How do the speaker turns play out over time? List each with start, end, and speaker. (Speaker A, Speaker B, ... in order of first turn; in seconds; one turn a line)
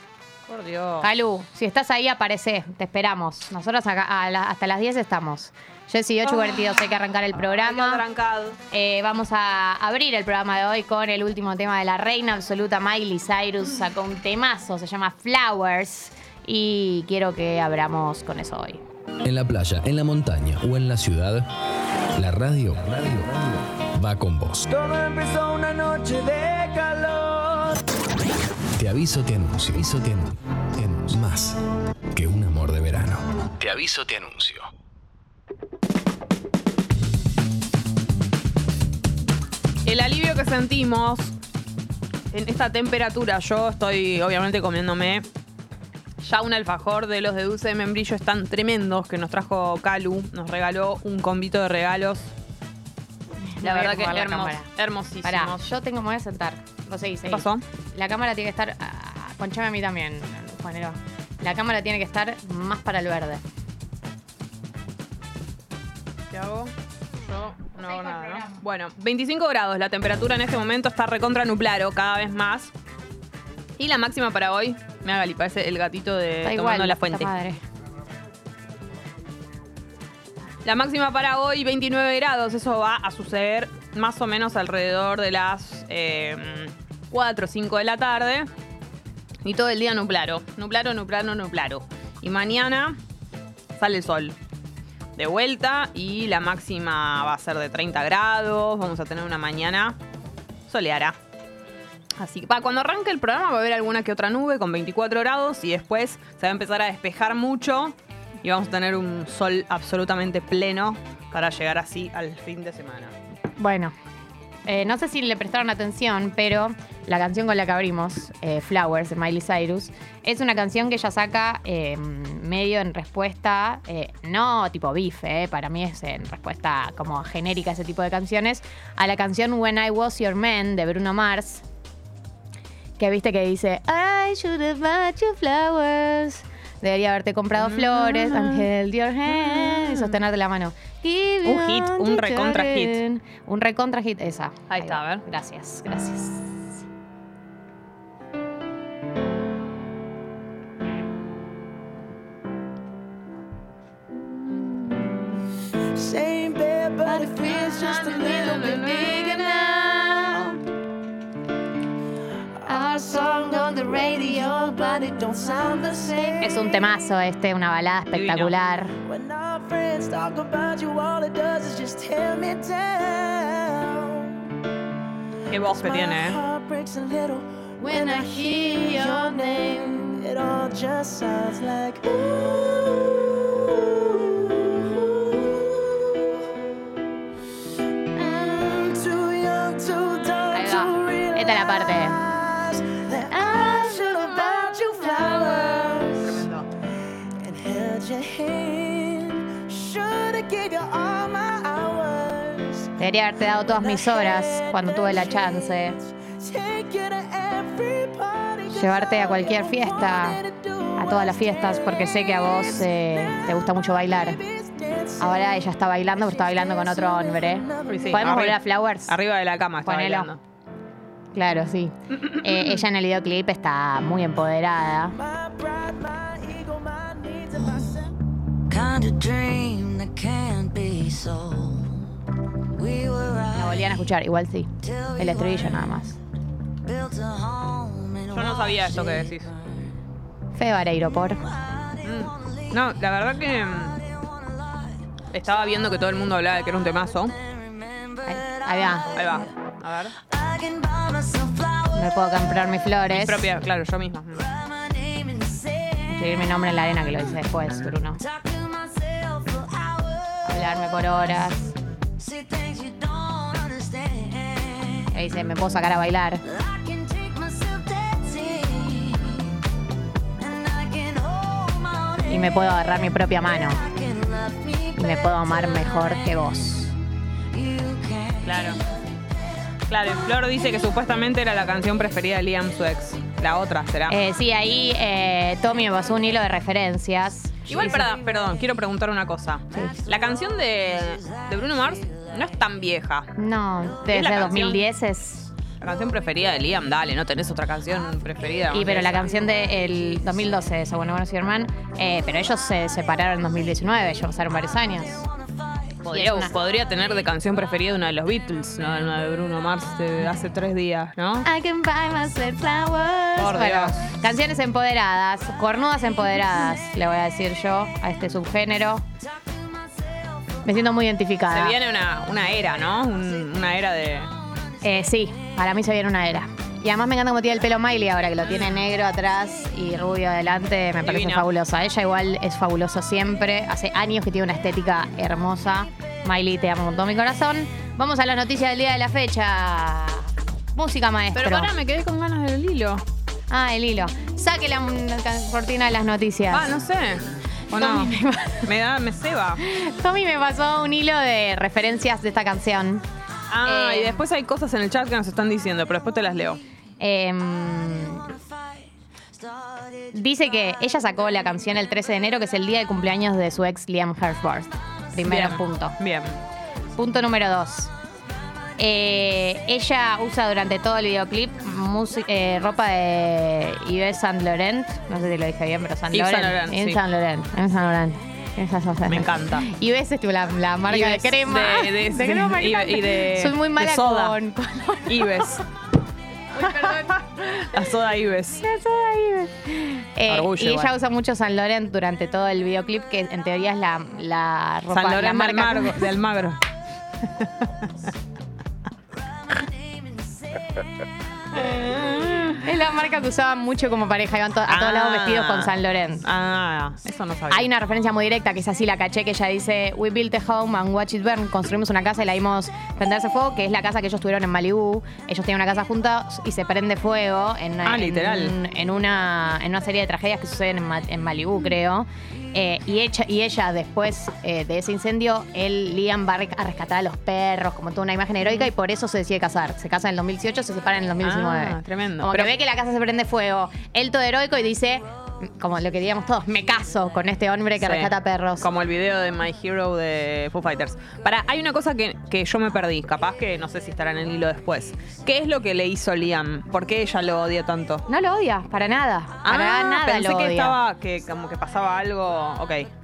Speaker A: 0.5-1.1
Speaker B: 1.0-8.0
Speaker A: 6.2-8.6
Speaker B: 8.7-18.8
Speaker C: 19.2-21.4
Speaker C: 22.2-24.7
Speaker D: 24.8-26.1
Speaker C: 28.8-31.6
Speaker C: 32.1-34.7
Speaker A: 39.9-41.4
Speaker A: 42.3-45.3
Speaker A: 46.2-52.3
Speaker B: 53.4-54.7
Speaker A: 53.6-55.7
Speaker B: 55.2-63.4
Speaker A: 57.3-57.6
Speaker A: 66.3-66.7
Speaker A: 67.2-72.7
Speaker B: 67.8-68.6
Speaker A: 73.8-77.3
Speaker B: 76.4-77.6
Speaker A: 80.7-88.5
Speaker A: 89.4-93.0
Speaker A: 93.8-94.4
Speaker A: 95.2-100.0
Speaker A: 100.7-101.2
Speaker A: 102.2-113.2
Speaker B: 113.6-113.9
Speaker B: 114.7-131.6
Speaker B: 133.0-146.6
Speaker A: 137.6-138.7
Speaker A: 139.3-140.2
Speaker A: 141.4-143.0
Speaker A: 144.7-145.2
Speaker D: 155.9-160.6
Speaker A: 157.5-159.7
Speaker B: 158.0-158.8
Speaker B: 159.4-160.6
Speaker D: 162.6-166.8
Speaker B: 166.4-168.9
Speaker A: 168.1-168.5
Speaker D: 169.1-174.5
Speaker A: 175.5-176.4
Speaker D: 175.6-186.7
Speaker B: 177.8-180.2
Speaker D: 188.1-196.5
Speaker B: 190.5-192.2
Speaker B: 193.3-194.7
Speaker A: 196.2-196.7
Speaker D: 197.4-202.9
Speaker B: 203.0-206.0
Speaker D: 203.7-218.2
Speaker B: 208.7-210.4
Speaker B: 211.0-214.4
Speaker B: 215.2-219.1
Speaker A: 217.9-220.4
Speaker B: 219.8-220.3
Speaker B: 221.3-225.2
Speaker D: 225.2-228.1
Speaker E: 227.6-227.9
Speaker E: 228.7-232.0
Speaker E: 232.8-234.0
Speaker B: 233.5-236.2
Speaker E: 234.8-236.0
Speaker E: 236.8-239.7
Speaker A: 238.3-239.5
Speaker B: 240.6-241.4
Speaker E: 241.4-242.8
Speaker A: 242.0-244.0
Speaker E: 243.9-245.0
Speaker A: 245.3-247.3
Speaker E: 247.4-249.5
Speaker B: 248.3-249.1
Speaker A: 249.2-250.2
Speaker E: 250.2-252.2
Speaker B: 251.9-253.5
Speaker A: 253.2-254.5
Speaker E: 254.4-256.2
Speaker B: 256.1-258.2
Speaker E: 258.2-260.7
Speaker B: 260.4-261.7
Speaker E: 262.2-265.1
Speaker B: 265.1-266.4
Speaker E: 266.4-269.4
Speaker E: 270.4-272.6
Speaker B: 272.3-273.8
Speaker E: 273.6-276.3
Speaker B: 274.9-276.9
Speaker E: 277.5-278.8
Speaker A: 278.4-278.8
Speaker A: 279.9-284.2
Speaker B: 284.1-288.1
Speaker A: 287.7-293.3
Speaker B: 293.4-295.5
Speaker A: 294.1-294.8
Speaker A: 295.8-299.3
Speaker B: 298.7-305.3
Speaker A: 306.0-311.5
Speaker B: 306.1-306.5
Speaker B: 311.4-319.1
Speaker A: 313.4-314.0
Speaker E: 319.9-320.3
Speaker B: 320.6-321.8
Speaker A: 321.5-324.3
Speaker B: 324.8-341.7
Speaker A: 328.4-328.9
Speaker A: 331.1-331.5
Speaker A: 341.4-343.0
Speaker B: 343.5-346.7
Speaker A: 346.5-349.6
Speaker B: 347.7-348.7
Speaker B: 349.6-353.1
Speaker A: 353.5-356.6
Speaker B: 353.6-354.2
Speaker B: 357.0-358.3
Speaker B: 360.1-366.0
Speaker A: 365.3-366.4
Speaker B: 367.0-367.9
Speaker B: 368.8-385.5
Speaker A: 376.1-377.0
Speaker A: 379.1-379.7
Speaker A: 380.9-384.4
Speaker A: 385.1-385.6
Speaker B: 386.6-387.2
Speaker A: 386.6-388.6
Speaker B: 388.6-396.1
Speaker A: 390.3-390.9
Speaker A: 394.9-396.6
Speaker E: 399.5-400.6
Speaker A: 401.7-402.5
Speaker B: 402.6-406.2
Speaker A: 404.7-407.7
Speaker B: 407.5-438.7
Speaker A: 417.9-418.6
Speaker A: 431.2-432.5
Speaker A: 437.8-448.0
Speaker B: 448.1-450.8
Speaker A: 449.4-452.9